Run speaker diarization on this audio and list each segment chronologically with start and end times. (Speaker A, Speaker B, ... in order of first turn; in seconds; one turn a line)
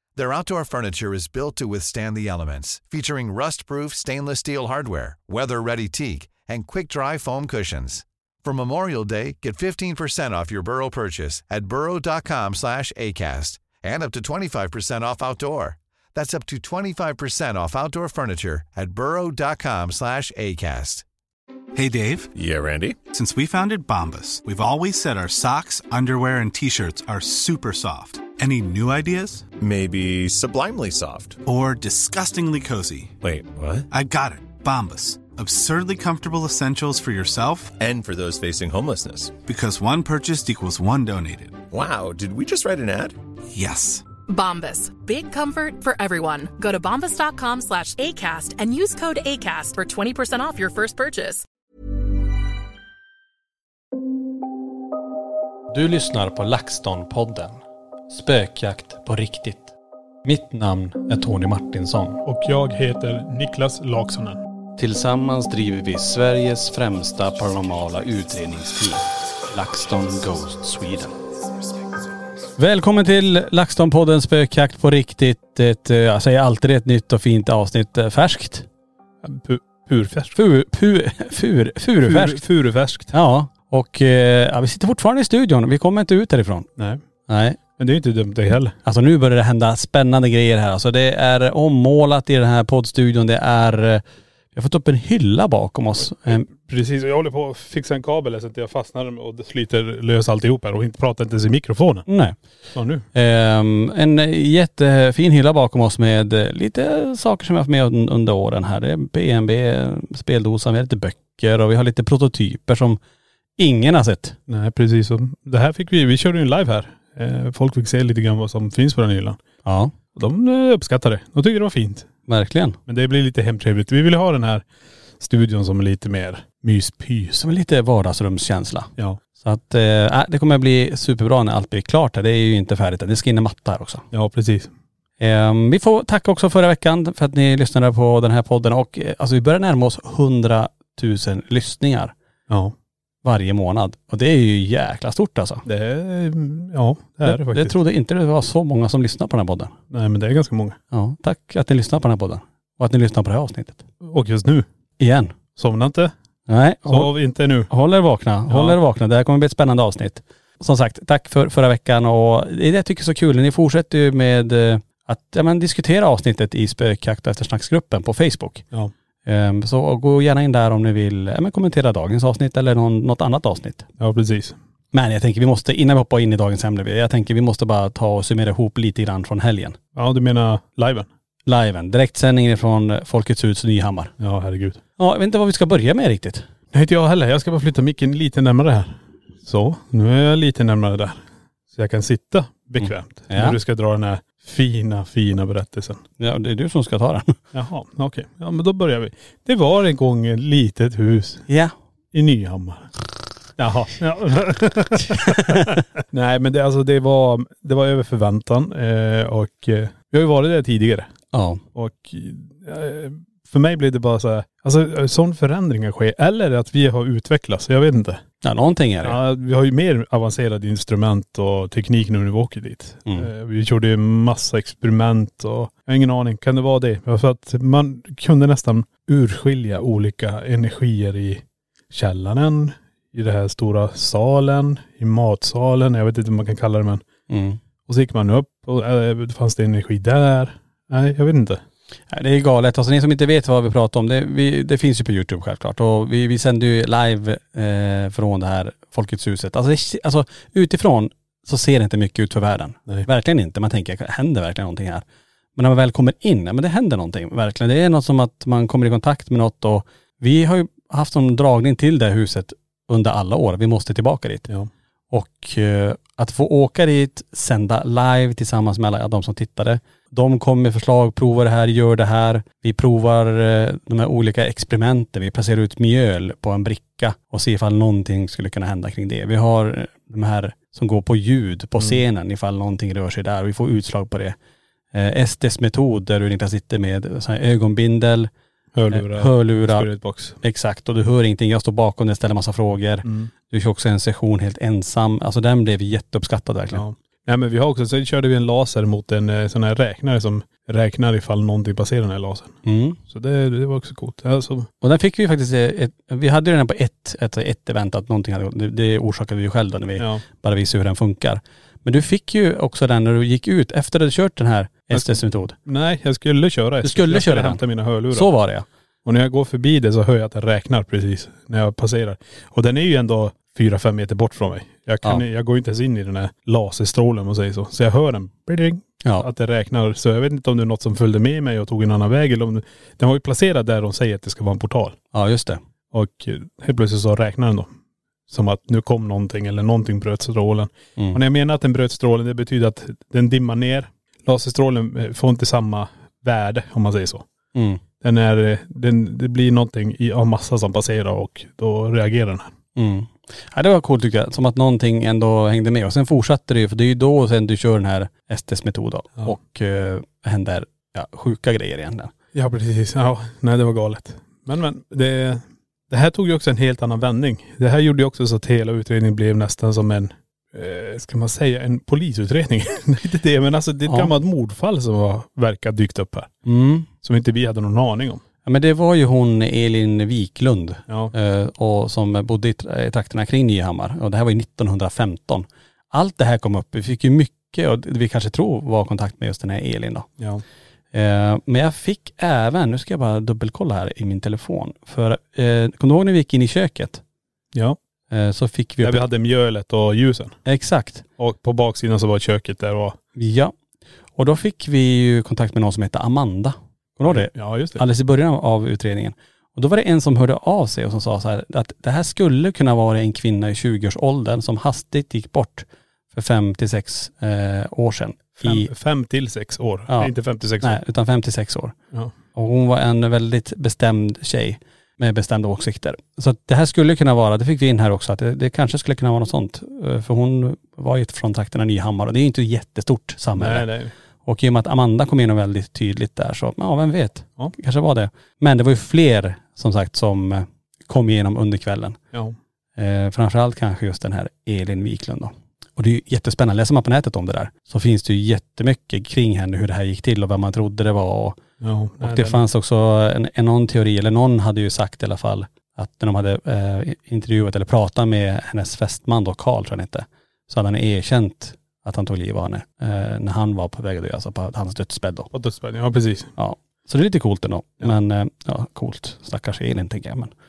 Speaker A: 0.2-21.1
Speaker B: 21.7-22.3
Speaker C: 22.4-23.0
Speaker B: 23.1-29.5
Speaker C: 29.6-31.4
Speaker B: 31.4-33.1
Speaker C: 33.2-33.9
Speaker B: 33.9-37.7
Speaker C: 37.8-39.4
Speaker B: 39.4-41.6
Speaker C: 41.7-43.2
Speaker B: 43.5-44.1
Speaker D: 44.3-51.5
Speaker E: 55.7-62.2
Speaker F: 62.2-64.4
Speaker E: 64.8-71.2
Speaker E: 72.6-78.7
Speaker F: 79.2-80.4
Speaker E: 80.3-82.4
Speaker F: 82.0-83.2
Speaker E: 83.1-86.7
Speaker F: 86.8-87.0
Speaker E: 87.3-87.6
Speaker F: 87.8-88.8
Speaker E: 88.8-94.0
Speaker E: 94.5-96.5
Speaker F: 96.3-102.1
Speaker E: 102.1-102.4
Speaker F: 102.7-103.1
Speaker E: 103.2-113.0
Speaker E: 113.6-114.4
Speaker F: 114.5-119.4
Speaker E: 119.7-119.9
Speaker F: 120.2-122.1
Speaker E: 122.3-122.8
Speaker F: 122.9-124.7
Speaker F: 125.2-127.4
Speaker E: 127.4-134.1
Speaker F: 134.1-134.7
Speaker E: 135.2-142.1
Speaker F: 142.5-142.8
Speaker E: 143.2-145.7
Speaker F: 145.7-147.8
Speaker E: 147.2-149.7
Speaker F: 149.9-150.8
Speaker E: 150.9-153.8
Speaker F: 154.0-154.7
Speaker E: 155.0-155.4
Speaker F: 155.6-156.1
Speaker E: 156.5-157.2
Speaker F: 156.9-157.7
Speaker E: 157.7-168.7
Speaker F: 158.5-158.8
Speaker E: 169.3-173.9
Speaker F: 174.0-174.6
Speaker E: 174.9-179.8
Speaker F: 179.9-181.1
Speaker E: 181.5-184.1
Speaker F: 184.2-184.8
Speaker E: 185.0-186.5
Speaker F: 186.7-196.0
Speaker E: 192.8-193.6
Speaker E: 196.2-197.4
Speaker F: 197.5-201.5
Speaker F: 202.1-202.9
Speaker F: 203.6-211.1
Speaker E: 211.3-211.6
Speaker F: 211.8-218.2
Speaker E: 218.4-219.2
Speaker F: 219.0-237.1
Speaker E: 237.3-237.6
Speaker F: 237.9-241.6
Speaker E: 242.1-255.0
Speaker E: 255.6-264.5
Speaker E: 265.1-284.4
Speaker E: 284.9-288.3
Speaker F: 288.8-290.4
Speaker E: 288.9-289.9
Speaker E: 290.4-296.8
Speaker F: 293.1-293.3
Speaker F: 296.7-304.7
Speaker E: 302.7-303.0
Speaker E: 304.8-315.6
Speaker F: 310.0-310.2
Speaker F: 315.7-318.3
Speaker E: 316.8-318.7
Speaker F: 319.1-335.0
Speaker E: 335.1-335.6
Speaker F: 335.9-337.7
Speaker F: 338.3-347.3
Speaker E: 347.6-347.8
Speaker F: 348.0-352.5
Speaker E: 352.8-362.1
Speaker F: 362.3-376.3
Speaker E: 376.5-376.9
Speaker F: 377.0-378.2
Speaker E: 378.5-390.1
Speaker F: 380.9-381.1
Speaker E: 390.9-397.0
Speaker E: 398.1-399.1
Speaker F: 398.8-400.4
Speaker E: 400.5-401.1
Speaker F: 401.2-403.0
Speaker E: 403.2-403.5
Speaker E: 404.2-418.7
Speaker F: 407.1-407.8
Speaker F: 418.4-420.8
Speaker E: 419.9-421.8
Speaker E: 422.4-433.7
Speaker F: 433.4-433.9
Speaker E: 434.2-442.0
Speaker E: 442.8-451.4
Speaker F: 451.6-452.4
Speaker E: 452.0-465.3
Speaker F: 465.3-466.3
Speaker E: 466.4-470.3